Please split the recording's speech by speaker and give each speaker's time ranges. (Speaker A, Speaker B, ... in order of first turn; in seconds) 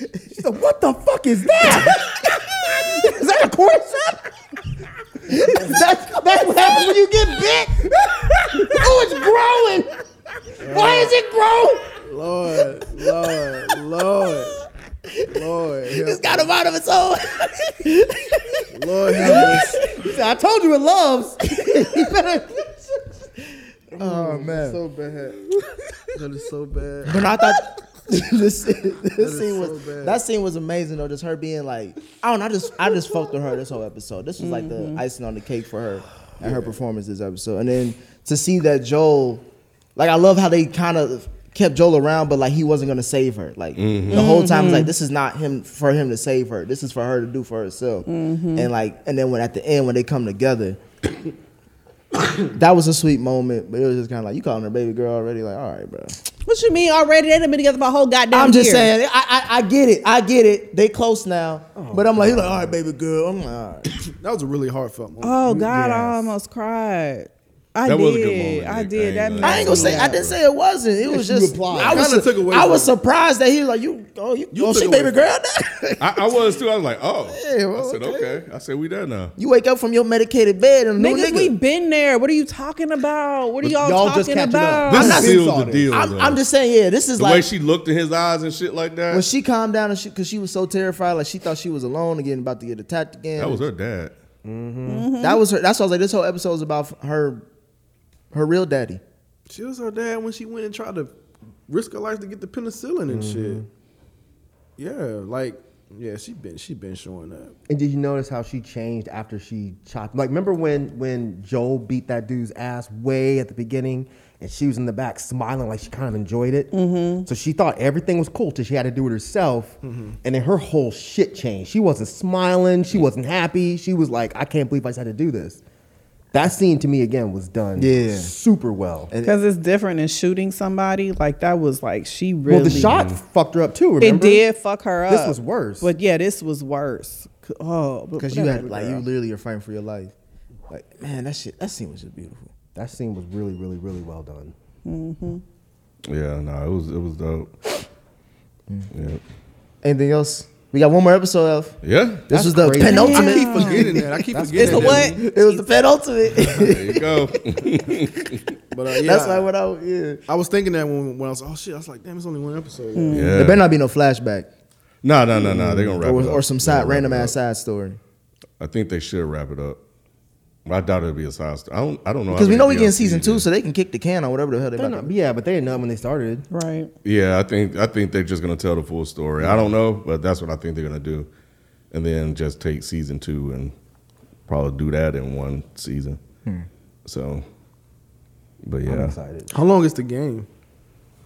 Speaker A: 0.3-4.2, 5.3-7.9, 8.5-9.9, 10.6-11.9, 19.2-22.9, 61.7-62.7, 65.5-66.3, 71.0-72.2, 83.6-85.9, 94.4-95.1, 103.1-103.7, 107.7-125.6, 126.3-129.1, 132.5-134.4, 135.1-135.9, 142.7-144.5, 152.3-155.1, 174.7-176.4, 179.4-179.7, 188.9-189.5
Speaker B: 6.3-6.9, 15.1-19.9, 21.5-22.2, 24.0-24.8, 27.1-39.5, 40.0-50.8, 52.4-56.2, 58.3-64.0, 69.4-76.4, 77.3-78.4, 79.4-81.5, 84.9-87.5, 89.1-93.7, 95.2-97.5, 98.3-99.0, 127.8-128.3, 129.1-129.4, 138.2-140.1, 140.7-142.5, 149.8-151.8, 152.3-154.0, 155.2-157.9, 158.9-160.2, 163.3-164.5, 165.4-168.0, 172.3-175.1
Speaker C: 10.6-11.2, 12.0-14.6, 15.3-16.5, 18.7-19.9, 23.9-25.4, 26.1-27.3, 29.2-30.2, 36.4-36.7, 64.0-65.4, 71.8-72.9, 74.5-75.3, 99.5-101.1, 101.7-103.6, 104.8-107.5, 119.8-120.2, 152.9-155.2, 158.7-159.5, 160.3-163.2, 189.5-190.5
Speaker D: 34.4-35.0, 44.1-44.9, 48.0-48.7, 56.5-58.9, 65.2-70.2, 81.0-85.2, 94.9-95.4, 116.7-117.3, 129.2-132.9, 134.0-139.1, 144.8-145.4, 152.8-155.7, 162.9-163.4, 176.5-176.9
Speaker E: 43.8-44.3, 67.8-70.4, 76.0-79.3, 84.9-86.4, 87.2-89.3, 93.4-94.1, 132.7-133.2, 146.1-147.5, 148.9-149.2, 151.8-152.3, 156.4-158.4, 163.1-163.7, 165.0-167.3, 168.6-169.8, 170.7-173.4, 177.0-181.3, 181.9-183.7, 184.5-186.2, 187.1-187.4, 188.6-189.2